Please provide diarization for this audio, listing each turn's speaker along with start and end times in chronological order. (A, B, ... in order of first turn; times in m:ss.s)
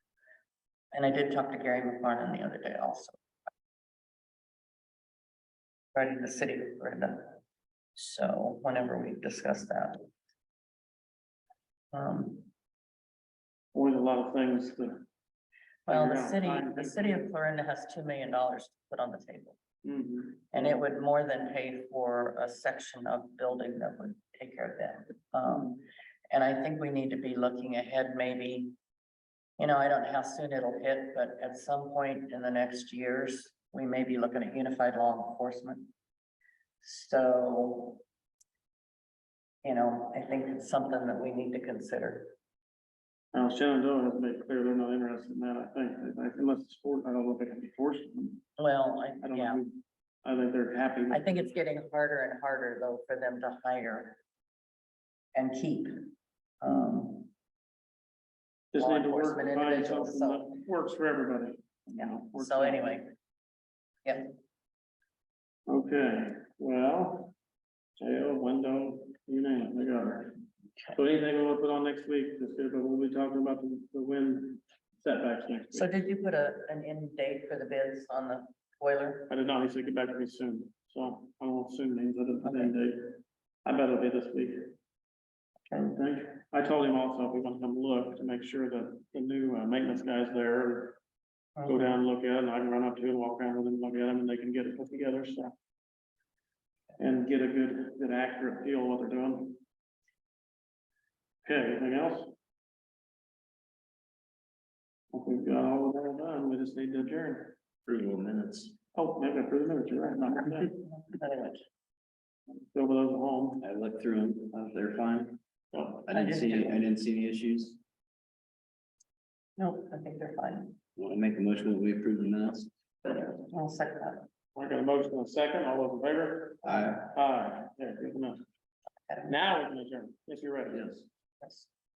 0:00.9-0:03.2 A
0:05.9-0:07.4 A
0:08.0-0:10.1 A
0:11.9-0:12.5 A
0:13.7-0:15.1 B
0:15.9-0:17.3 B
0:15.9-0:19.6 A
0:19.8-0:20.8 B
0:20.5-0:28.8 A
0:29.6-0:35.9 A
0:36.8-0:38.0 A
0:39.6-0:42.4 A
0:43.3-0:48.4 B
0:48.6-0:49.6 A
0:49.2-0:51.5 B
0:51.1-0:54.2 A
0:55.3-0:57.3 A
0:58.7-1:02.9 B
0:58.8-1:00.6 A
1:02.0-1:03.2 A
1:05.7-1:07.3 B
1:08.0-1:10.4 B
1:10.9-1:15.9 B
1:15.7-1:19.3 A
1:19.3-1:24.8 B
1:22.4-1:22.7 A
1:25.7-1:31.0 B
1:31.6-1:32.0 A
1:31.6-1:35.5 B
1:37.0-1:39.6 B
1:41.4-1:42.3 B
1:45.1-1:47.6 B
1:47.9-1:48.8 C
1:48.9-1:50.8 B
1:50.6-1:51.6 A
1:52.7-1:53.6 B
1:53.6-1:55.4 C
1:55.7-1:56.0 B
1:56.1-1:57.8 C
1:56.1-1:56.8 A
1:59.6-2:00.8 A
2:01.0-2:02.7 C
2:03.4-2:04.3 A
2:04.6-2:08.4 B
2:06.6-2:07.1 C
2:09.1-2:09.4 A
2:09.3-2:11.0 B
2:10.7-2:11.0 C
2:11.4-2:11.7 A